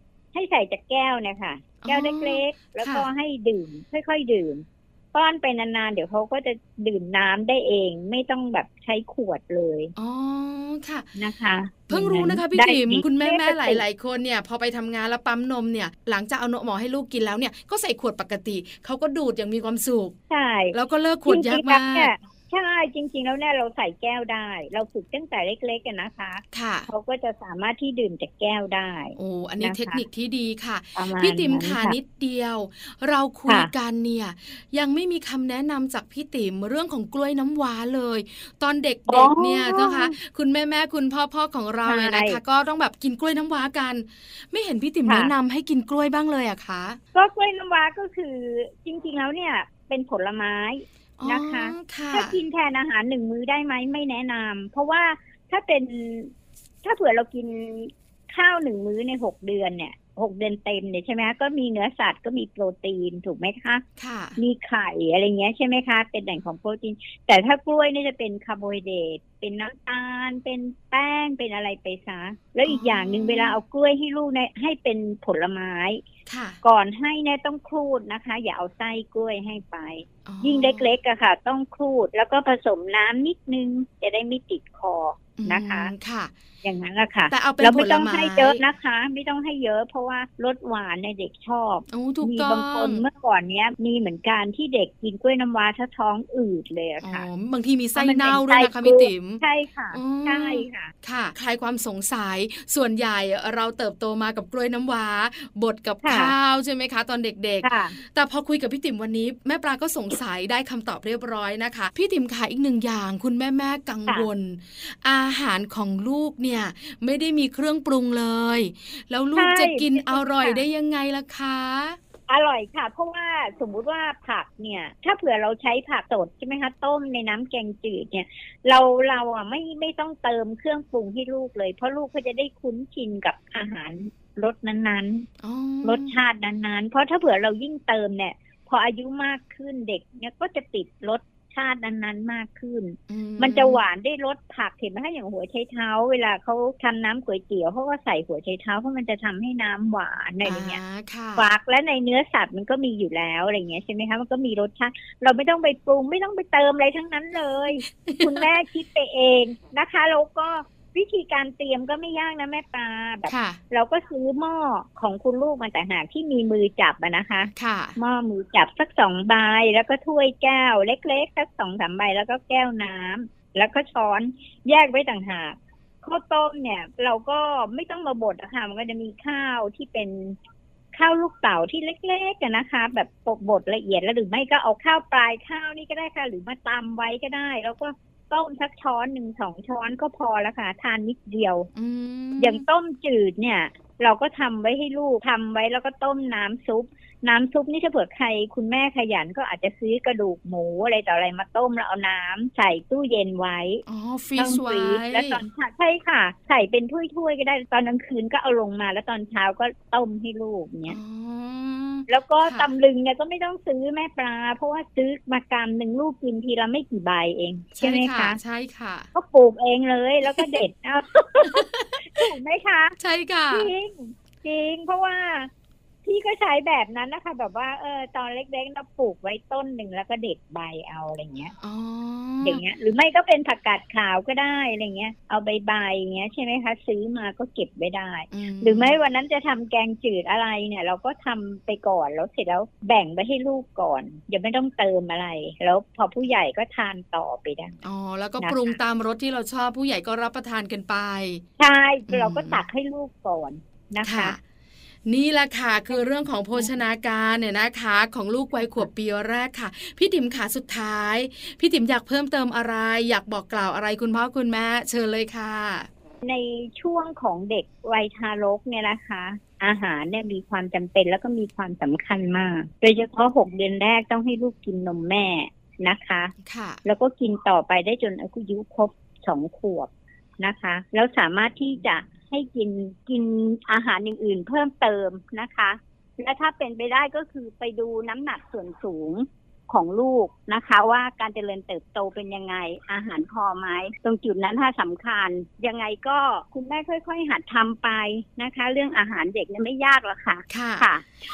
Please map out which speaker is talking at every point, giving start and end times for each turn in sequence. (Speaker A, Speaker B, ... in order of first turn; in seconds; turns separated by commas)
Speaker A: 0.3-9.9, Speaker B: 1.8-3.1, Speaker B: 10.0-11.1, Speaker A: 11.2-13.8, Speaker B: 11.9-20.2, Speaker A: 20.3-20.8, Speaker B: 20.7-22.1, Speaker A: 21.3-30.0, Speaker B: 26.5-26.9, Speaker B: 29.2-47.0, Speaker A: 31.0-32.0, Speaker A: 39.1-40.1, Speaker A: 41.9-42.4, Speaker A: 45.1-45.3, Speaker A: 47.1-63.8, Speaker B: 51.2-52.4, Speaker B: 64.0-64.4, Speaker A: 64.4-76.0, Speaker B: 72.7-73.6, Speaker B: 76.3-76.6, Speaker A: 76.6-85.9, Speaker B: 80.3-80.9, Speaker B: 85.4-86.3, Speaker A: 86.6-97.3, Speaker B: 87.3-88.6, Speaker B: 91.9-93.0, Speaker B: 97.0-99.4, Speaker A: 98.0-100.9, Speaker B: 99.9-122.0, Speaker A: 106.0-106.3, Speaker A: 107.6-108.0, Speaker A: 119.4-120.6, Speaker A: 122.3-135.3, Speaker B: 135.4-136.2, Speaker A: 135.8-150.8, Speaker B: 143.1-143.8, Speaker B: 150.4-151.5, Speaker A: 151.4-180.4, Speaker B: 158.1-158.4, Speaker B: 163.3-163.6, Speaker B: 167.6-168.0, Speaker A: 180.9-191.7, Speaker B: 191.8-192.6, Speaker A: 192.4-203.8, Speaker B: 203.9-205.4, Speaker A: 204.4-211.0, Speaker B: 210.9-212.7, Speaker A: 212.1-218.4, Speaker B: 217.8-219.1, Speaker A: 219.1-223.0, Speaker B: 221.5-222.3, Speaker B: 223.0-223.7, Speaker A: 223.5-225.5, Speaker A: 226.1-231.5, Speaker B: 231.6-232.6, Speaker A: 232.4-247.8, Speaker B: 238.3-239.0, Speaker B: 247.8-251.4, Speaker A: 248.4-248.8, Speaker A: 251.6-254.4, Speaker B: 252.1-252.6, Speaker B: 254.0-254.4, Speaker B: 255.1-265.9, Speaker A: 266.2-276.3, Speaker B: 276.4-276.8, Speaker A: 276.9-301.1, Speaker B: 300.5-300.9